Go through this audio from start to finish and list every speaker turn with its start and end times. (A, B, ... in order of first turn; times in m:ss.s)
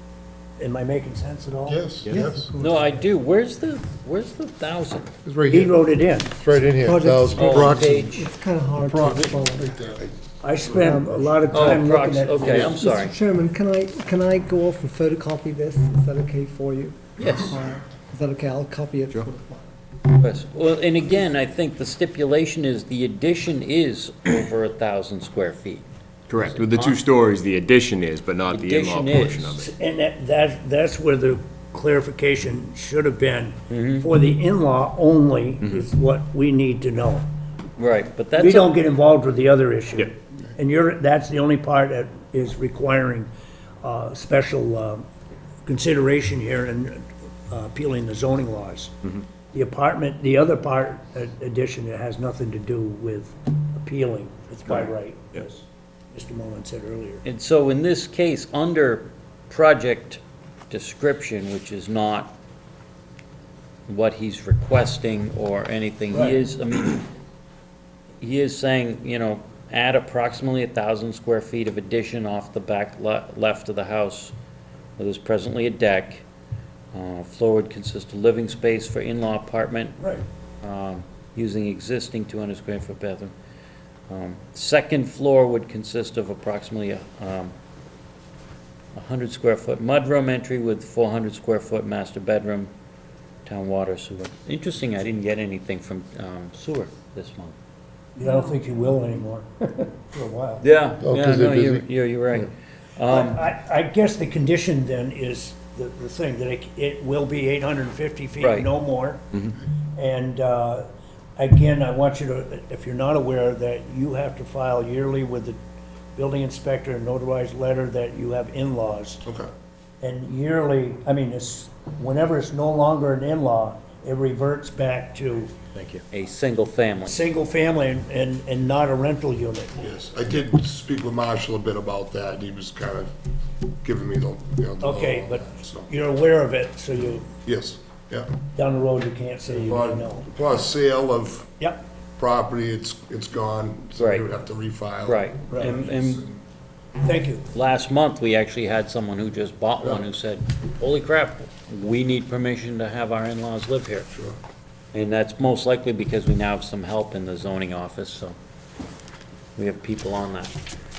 0:00.6-0:01.9 A
0:01.6-0:02.5 B
0:02.1-0:02.8 C
0:02.6-0:05.1 D
0:05.2-0:08.0 B
0:05.5-0:06.4 A
0:06.7-0:09.7 C
0:07.3-0:08.3 D
0:08.8-0:11.2 B
0:10.4-0:12.8 A
0:10.7-0:11.2 C
0:11.5-0:13.2 D
0:12.4-0:19.7 C
0:17.2-0:17.6 D
0:20.1-0:25.8 D
0:26.3-0:29.7 E
0:26.4-0:27.0 D
0:28.5-0:29.5 D
0:29.5-0:37.2 A
0:33.7-0:34.1 D
0:35.6-0:35.9 E
0:37.8-0:38.7 D
0:38.4-0:43.3 A
0:43.8-0:45.0 A
0:45.6-0:48.9 A
0:49.5-0:57.2 A
0:54.7-0:55.4 E
0:57.2-1:02.3 D
1:03.9-1:07.1 D
1:06.1-1:06.4 A
1:08.2-1:14.3 D
1:15.0-1:16.2 D
1:16.9-1:20.0 D
1:20.0-1:20.2 A
1:20.6-1:23.3 D
1:24.1-1:27.5 D
1:28.9-1:32.7 D
1:33.4-1:37.5 D
1:38.2-1:40.6 A
1:40.6-1:43.4 D
1:41.0-1:41.8 B
1:43.0-1:49.2 A
1:48.4-1:48.7 D
1:50.0-1:50.8 A
1:51.4-1:55.6 A
1:56.2-1:59.2 A
1:59.2-1:59.5 B
2:00.0-2:05.5 A
2:05.7-2:06.0 E
2:06.1-2:07.2 D
2:07.0-2:09.8 A
2:09.8-2:13.1 B
2:13.8-2:15.9 B
2:14.8-2:17.3 A
2:17.4-2:18.3 B
2:18.5-2:20.3 A
2:19.5-2:21.5 B
2:22.2-2:26.4 B
2:24.0-2:24.3 D
2:25.0-2:26.2 D
2:25.5-2:25.8 A
2:27.0-2:27.4 A
2:27.5-2:34.1 D
2:34.9-2:38.4 D
2:39.6-2:40.5 D